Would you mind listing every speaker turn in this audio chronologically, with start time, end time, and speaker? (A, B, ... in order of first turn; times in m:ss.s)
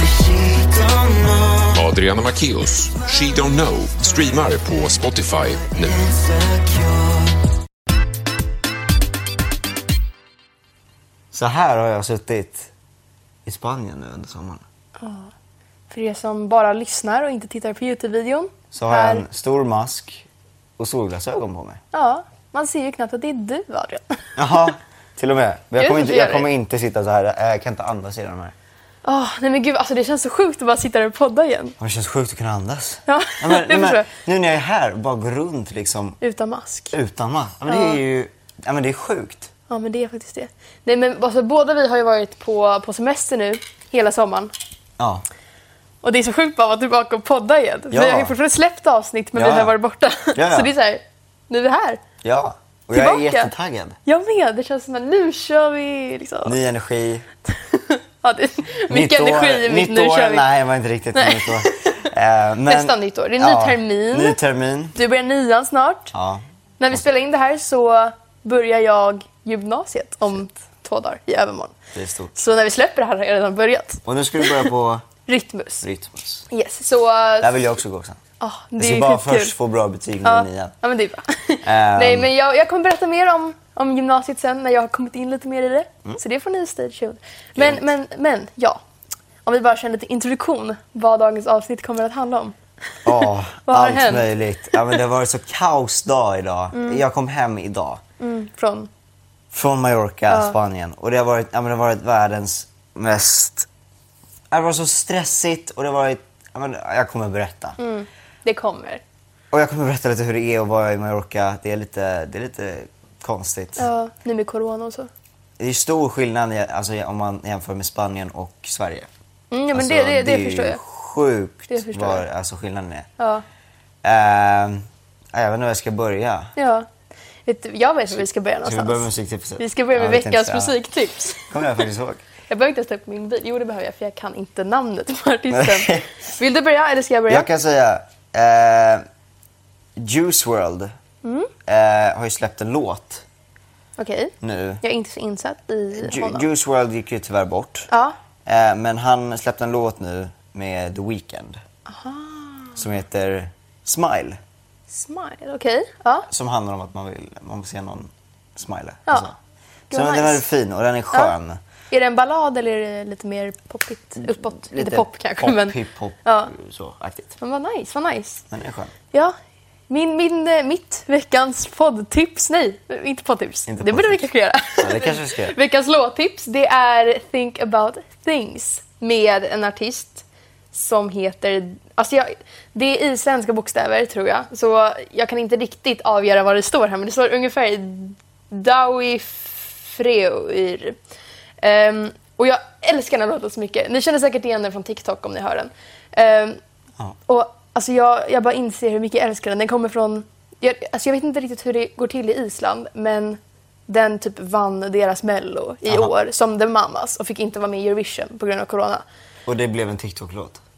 0:01.7-0:06.2 A
0:11.3-0:12.7 B
0:13.4-0:14.6 B
0:15.0-0:15.3 C
0:15.9-0:19.2 C
0:18.7-0:20.2 B
0:20.8-0:21.8 B
0:21.9-0:24.3 C
0:24.4-0:28.5 B
0:25.8-0:26.5 C
0:29.0-0:31.7 C
0:31.8-0:36.2 B
0:33.1-0:34.1 C
0:36.2-0:37.0 C
0:36.9-0:39.5 B
0:37.7-0:38.0 C
0:39.7-0:44.5 C
0:45.0-0:45.2 B
0:46.0-0:52.0 C
0:47.9-0:48.3 B
0:49.4-0:49.7 B
0:50.3-0:50.7 B
0:52.2-0:54.0 B
0:52.9-0:53.5 C
0:54.0-0:56.5 C
0:56.4-0:57.2 B
0:57.5-1:00.4 C
0:58.9-1:04.9 B
1:01.1-1:02.1 C
1:02.6-1:04.4 C
1:04.9-1:06.1 C
1:06.1-1:06.4 B
1:06.8-1:11.7 C
1:11.9-1:12.4 B
1:12.3-1:14.7 C
1:14.0-1:15.0 B
1:15.2-1:15.8 C
1:15.8-1:16.4 B
1:16.5-1:17.7 C
1:17.4-1:18.2 B
1:18.4-1:19.5 C
1:18.8-1:20.7 B
1:20.2-1:28.8 C
1:21.6-1:22.3 B
1:27.6-1:27.8 B
1:29.4-1:35.0 C
1:33.0-1:38.0 B
1:36.7-1:37.0 C
1:38.2-1:38.9 C
1:39.5-1:43.7 B
1:40.3-1:40.6 C
1:44.5-1:47.8 B
1:47.8-1:49.0 C
1:49.5-1:53.9 B
1:53.8-1:55.1 C
1:55.6-1:59.1 B
1:59.5-2:00.8 C
1:59.7-2:03.1 B
2:01.7-2:02.2 C
2:03.2-2:03.4 C
2:04.0-2:06.5 B
2:06.6-2:06.9 C
2:07.4-2:09.1 C
2:08.6-2:10.7 B
2:09.6-2:11.8 C
2:11.5-2:12.2 B
2:12.5-2:17.5 C
2:15.5-2:16.1 B
2:17.3-2:19.0 B
2:20.0-2:20.9 B
2:21.2-2:21.5 C
2:21.6-2:23.2 B
2:24.0-2:26.4 C
2:24.4-2:24.8 B
2:26.0-2:27.9 B
2:27.9-2:28.2 C
2:28.4-2:31.6 B
2:31.9-2:32.8 C
2:32.8-2:34.4 B
2:34.9-2:36.3 C
2:36.3-2:39.4 B
2:39.9-2:40.4 C
2:39.9-2:41.6 B
2:41.9-2:46.5 C
2:44.2-2:47.4 B
2:47.4-2:48.4 C
2:48.5-2:48.9 B
2:49.9-3:11.0 C
2:53.7-2:54.2 B
2:54.8-2:55.5 B
3:11.6-3:16.6 C
3:17.3-3:29.0 C
3:29.4-3:30.6 B